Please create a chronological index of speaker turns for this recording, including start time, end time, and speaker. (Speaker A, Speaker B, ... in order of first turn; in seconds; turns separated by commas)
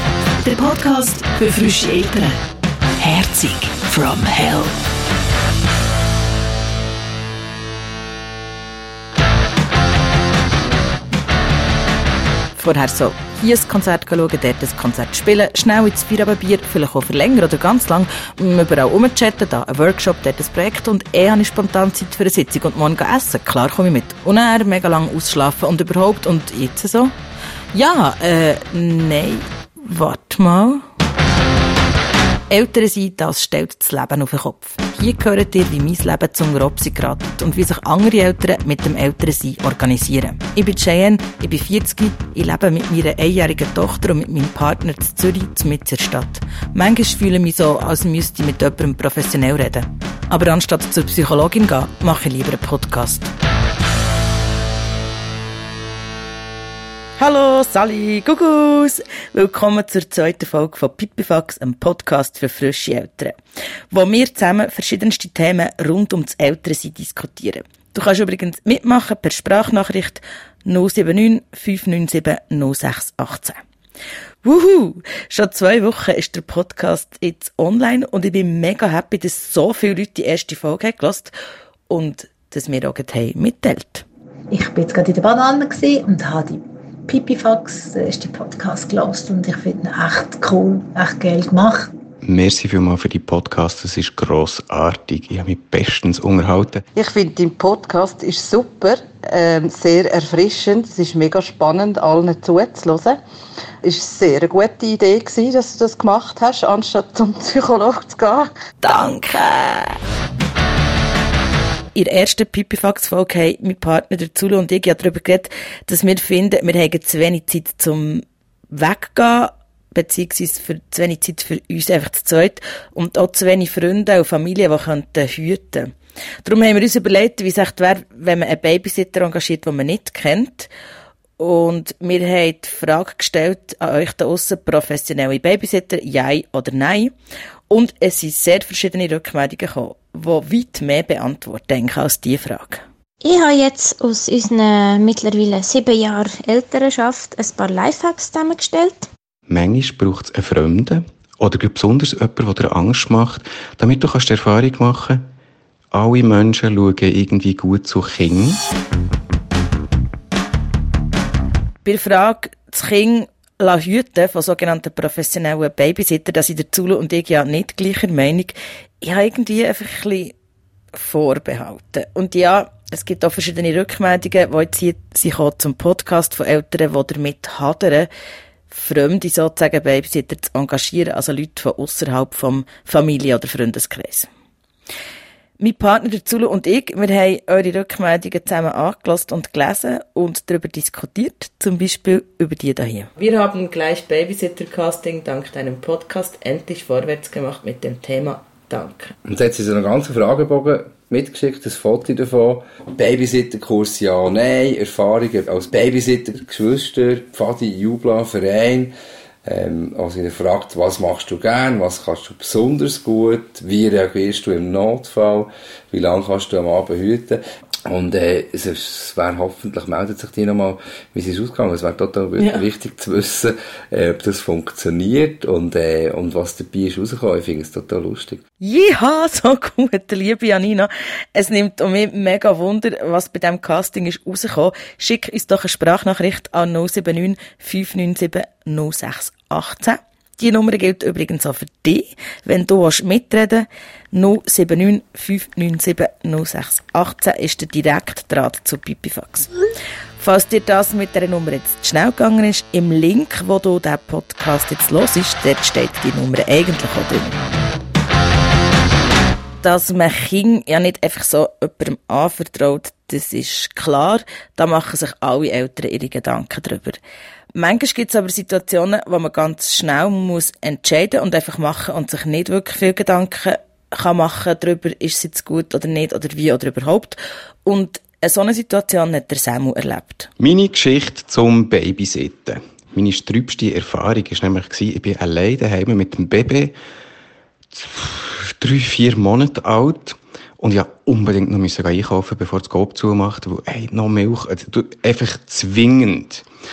Speaker A: 0.4-2.4, Speaker A: 3.0-4.8, Speaker B: 12.6-27.2, Speaker B: 27.7-30.9, Speaker B: 32.5-53.3, Speaker B: 57.2-63.4, Speaker B: 63.9-73.6, Speaker B: 74.4-81.3, Speaker B: 81.9-84.1, Speaker C: 84.5-91.9, Speaker D: 92.2-96.8, Speaker E: 97.0-103.2, Speaker E: 103.8-108.5, Speaker B: 108.8-110.0, Speaker B: 112.0-125.9, Speaker B: 126.4-130.7, Speaker B: 131.4-137.1, Speaker B: 137.7-142.8, Speaker F: 143.2-149.1, Speaker D: 149.5-155.2, Speaker D: 155.9-158.6, Speaker B: 161.8-170.3, Speaker B: 170.9-178.1, Speaker B: 178.7-184.3, Speaker B: 185.6-199.1, Speaker G: 199.3-208.9, Speaker G: 209.4-228.4, Speaker B: 222.4-222.7, Speaker B: 228.6-249.5, Speaker B: 250.2-257.4, Speaker B: 259.6-267.0, Speaker B: 267.5-280.3, Speaker D: 280.4-286.8, Speaker D: 287.7-296.5